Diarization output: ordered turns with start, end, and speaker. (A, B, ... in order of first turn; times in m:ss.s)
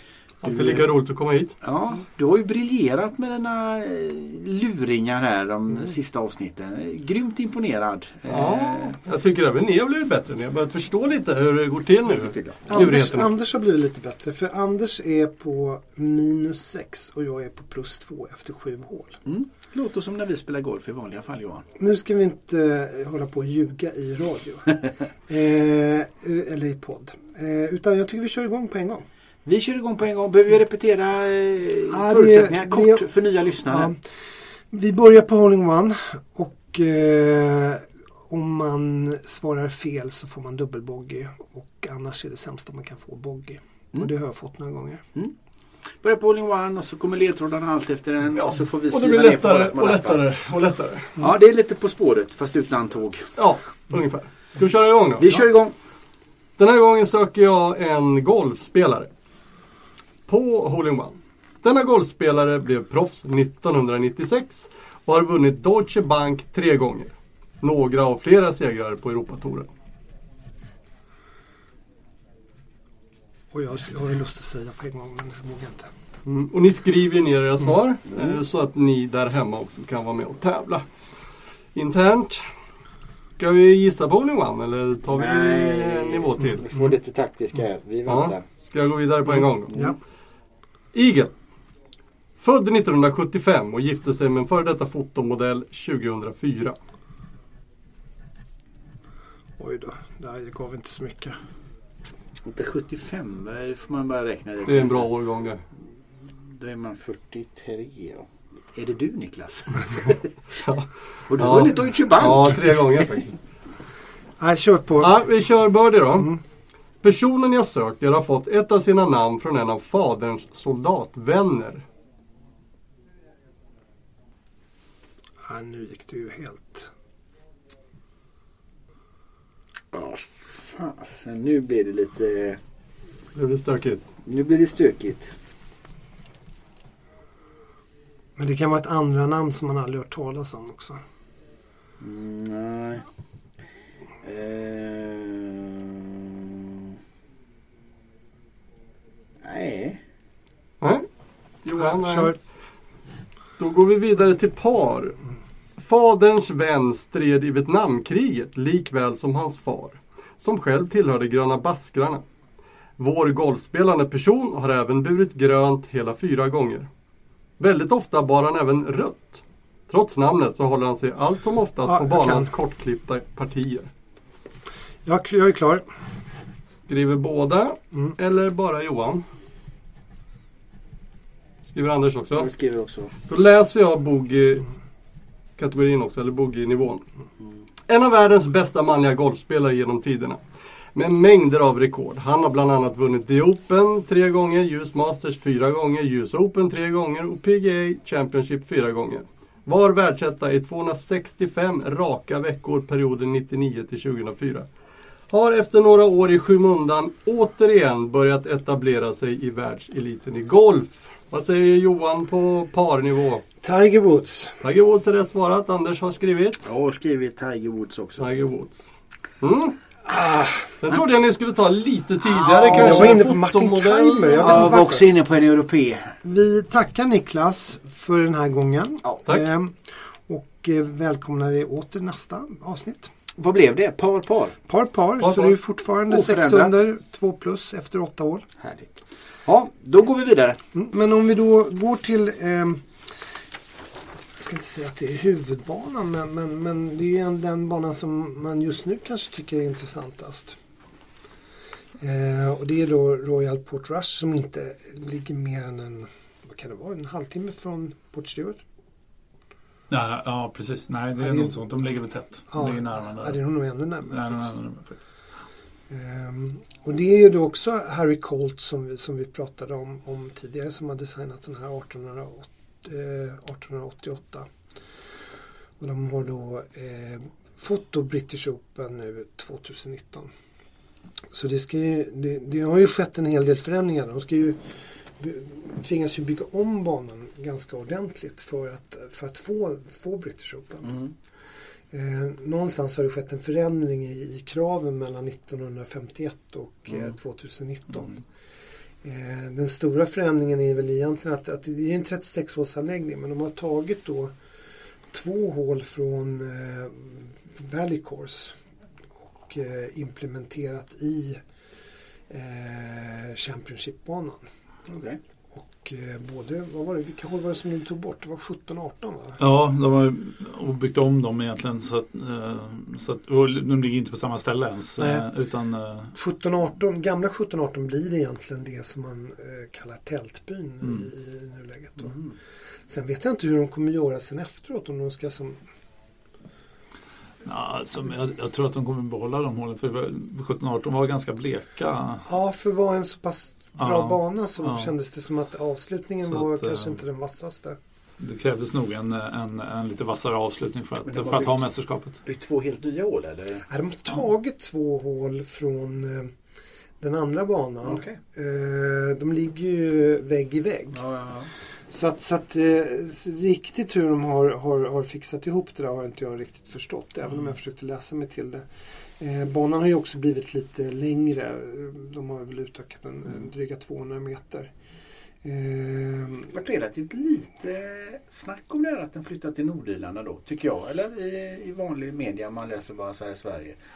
0:00.4-0:01.6 A
0:00.5-0:00.8 B
0:01.6-0:09.0 B
0:08.3-0:13.3 A
0:12.1-0:12.7 B
0:12.7-0:19.2 C
0:19.2-0:21.7 B
0:21.8-0:29.0 C
0:29.4-0:33.9 B
0:31.9-0:33.1 C
0:33.6-0:34.0 C
0:34.7-0:45.0 C
0:46.0-0:50.2 B
0:48.4-0:51.2 A
0:51.2-0:53.3 B
0:53.4-0:55.4 A
0:55.2-0:55.7 B
0:56.6-0:59.1 A
1:00.3-1:09.7 A
1:13.5-1:15.9 C
1:16.2-1:20.9 A
1:21.7-1:22.5 A
1:23.4-1:26.9 A
1:25.1-1:28.5 B
1:28.0-1:29.9 A
1:30.9-1:31.3 A
1:32.4-1:36.8 A
1:39.6-1:41.4 C
1:42.4-1:45.0 B
1:44.6-1:45.6 A
1:46.2-1:50.3 B
1:50.6-1:53.4 A
1:51.3-1:52.8 B
1:54.4-1:55.2 C
1:55.0-1:56.4 A
1:57.0-2:01.8 A
2:05.4-2:06.9 C
2:09.9-2:12.6 B
2:13.3-2:14.1 A
2:14.2-2:15.3 B
2:18.4-2:21.0 C
2:22.0-2:23.0 B
2:24.2-2:26.8 B
2:29.4-2:30.0 B
2:30.8-2:31.1 A
2:31.6-2:32.4 A
2:32.0-2:32.4 C
2:33.6-2:35.2 A
2:35.8-2:42.2 A
2:43.0-2:46.9 A
2:47.6-2:53.9 A
2:51.9-2:52.5 C
2:55.0-2:55.9 C
2:56.7-2:59.2 A
3:01.7-3:02.5 A
3:02.3-3:03.1 B
3:03.3-3:04.7 A
3:05.6-3:07.0 A
3:07.9-3:10.4 A
3:10.9-3:24.7 A
3:25.3-3:33.4 A
3:33.6-3:34.6 C
3:34.6-3:36.6 A
3:36.6-3:38.2 B
3:38.2-3:39.7 A
3:40.1-3:40.6 C
3:40.8-3:44.8 A
3:42.4-3:43.1 B
3:42.6-3:45.1 C
3:44.4-3:46.1 B
3:46.2-3:53.1 C
3:53.4-3:54.6 B
3:54.7-3:58.5 C
3:55.2-3:55.5 A
3:56.1-3:56.8 B
3:58.6-4:00.6 B
4:00.7-4:02.8 C
4:04.4-4:10.6 C
4:12.0-4:18.6 C
4:19.9-4:23.4 D
4:21.2-4:21.6 C
4:22.5-4:24.5 C
4:24.0-4:25.2 D
4:25.9-4:34.5 C
4:35.8-4:40.3 C
4:41.3-4:51.0 C
4:51.9-4:58.2 C
4:59.0-5:04.3 C
5:05.1-5:08.6 C
5:09.4-5:11.4 C
5:12.3-5:14.5 C
5:14.9-5:15.2 B
5:15.5-5:19.4 C
5:19.4-5:26.1 D
5:25.0-5:25.3 C
5:26.1-5:32.2 C
5:32.1-5:32.3 B
5:32.9-5:35.6 C
5:37.4-5:42.2 D
5:42.2-5:47.8 C
5:43.8-5:44.9 D
5:46.3-5:47.0 D
5:48.2-5:52.2 D
5:51.0-5:51.7 B
5:52.2-5:53.7 B
5:53.7-5:56.3 C
5:57.0-6:01.0 C
5:57.8-5:58.2 B
6:00.9-6:01.5 B
6:01.9-6:08.6 C
6:09.2-6:14.7 C
6:15.4-6:16.5 C
6:16.5-6:23.8 B